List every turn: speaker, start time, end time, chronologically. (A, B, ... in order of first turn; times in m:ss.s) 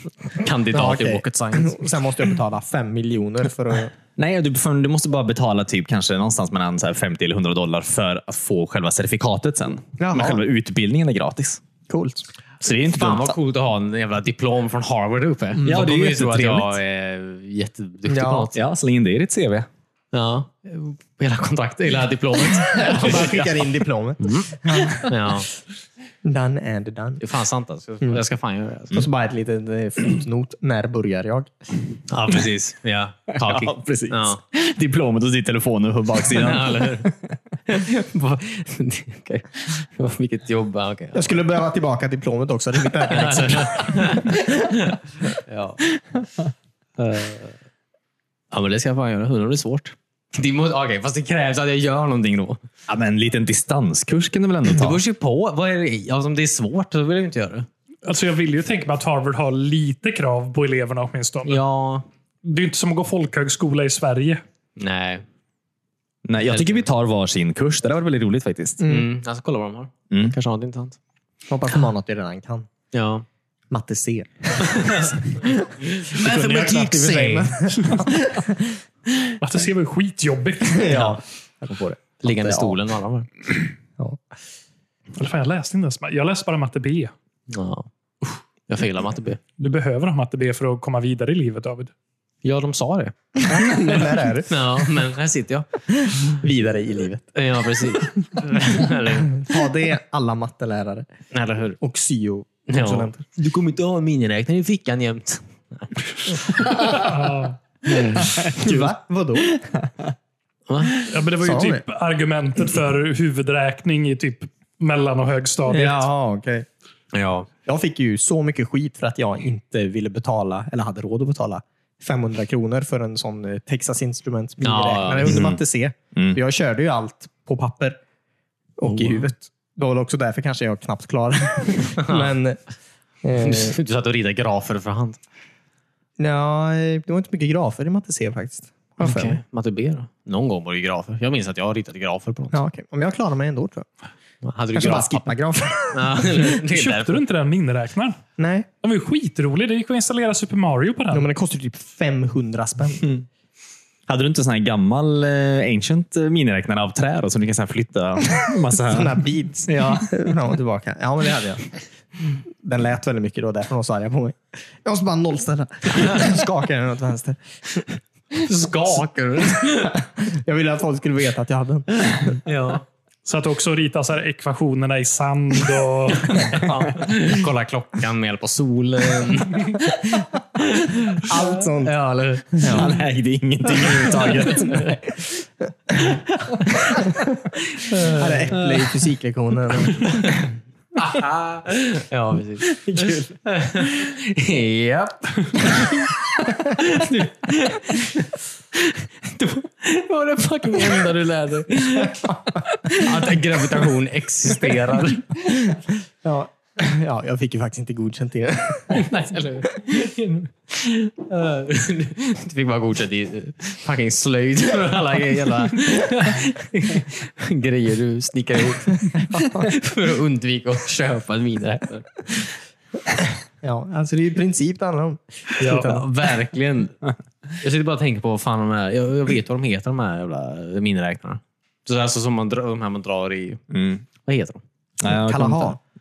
0:00.3-0:01.9 A
0:00.7-0:03.9 B
0:04.2-0:11.6 C
0:10.0-0:10.4 B
0:11.9-0:12.3 B
0:12.6-0:13.4 C
0:12.6-0:18.6 A
0:15.6-0:15.9 B
0:15.6-0:16.8 C
0:18.1-0:18.5 B
0:18.5-0:19.7 C
0:20.1-0:23.6 A
0:22.5-0:25.3 B
0:24.2-0:25.5 A
0:26.2-0:27.2 B
0:27.2-0:29.0 A
0:28.9-0:31.5 B
0:32.1-0:34.4 A
0:33.4-0:37.1 C
0:36.3-0:37.2 A
0:37.7-0:41.3 A
0:41.1-0:44.7 B
0:43.0-0:46.2 A
0:47.0-0:47.6 A
0:48.5-0:52.6 A
0:52.9-0:55.0 C
0:54.7-0:57.7 A
0:58.0-1:01.6 D
1:01.5-1:02.1 A
1:02.4-1:04.4 D
1:04.8-1:05.2 A
1:06.2-1:08.8 C
1:06.4-1:06.9 A
1:08.8-1:09.1 B
1:08.8-1:11.0 A
1:10.1-1:10.4 C
1:11.5-1:12.7 B
1:12.9-1:13.3 A
1:13.7-1:18.8 B
1:14.7-1:15.2 A
1:15.8-1:17.7 A
1:19.4-1:21.0 D
1:20.6-1:22.8 B
1:20.9-1:21.2 A
1:22.0-1:23.3 A
1:25.2-1:27.1 D
1:27.5-1:27.9 A
1:28.7-1:29.4 A
1:29.6-1:31.9 D
1:32.4-1:33.2 A
1:33.4-1:34.8 B
1:34.5-1:36.4 A
1:36.4-1:37.3 B
1:37.3-1:39.4 A
1:39.3-1:41.1 B
1:41.3-1:41.8 A
1:41.8-1:43.2 B
1:42.7-1:46.9 A
1:46.6-1:47.6 D
1:47.9-1:48.5 A
1:48.3-1:49.6 B
1:50.7-1:51.0 A
1:51.0-1:56.1 D
1:51.4-1:51.8 B
1:55.7-1:56.7 B
1:57.1-1:57.5 A
1:57.7-2:08.0 B
2:04.6-2:05.5 A
2:05.3-2:05.6 C
2:08.8-2:12.6 B
2:08.8-2:09.3 A
2:12.0-2:12.3 A
2:13.2-2:13.8 B
2:13.4-2:15.2 A
2:16.2-2:19.4 B
2:19.0-2:22.6 A
2:22.5-2:23.9 B
2:24.4-2:25.3 A
2:24.8-2:26.5 B
2:25.9-2:27.2 A
2:26.6-2:28.2 D
2:28.4-2:28.7 B
2:28.8-2:31.2 D
2:31.1-2:33.2 B
2:34.1-2:39.2 C
2:38.7-2:41.6 B
2:39.7-2:40.1 A
2:42.6-2:48.0 B
2:48.4-2:50.0 A
2:49.7-2:52.4 B
2:52.4-2:52.8 A
2:53.2-2:56.8 D
2:56.4-3:02.8 A
3:01.2-3:02.0 B
3:02.5-3:03.0 B
3:02.7-3:05.0 C
3:03.8-3:05.0 A
3:04.8-3:05.2 B
3:05.9-3:06.2 B
3:06.8-3:10.5 B
3:07.8-3:08.6 A
3:11.0-3:25.4 A
3:12.8-3:13.3 C
3:22.0-3:22.6 B
3:25.4-3:29.1 B
3:28.9-3:42.6 A
3:39.2-3:39.7 B
3:43.6-3:46.1 B
3:45.6-3:45.9 D
3:45.6-3:47.0 A
3:47.6-3:53.6 A
3:53.7-3:54.0 C
3:54.2-3:54.6 A
3:55.0-3:55.8 C
3:55.0-3:55.8 B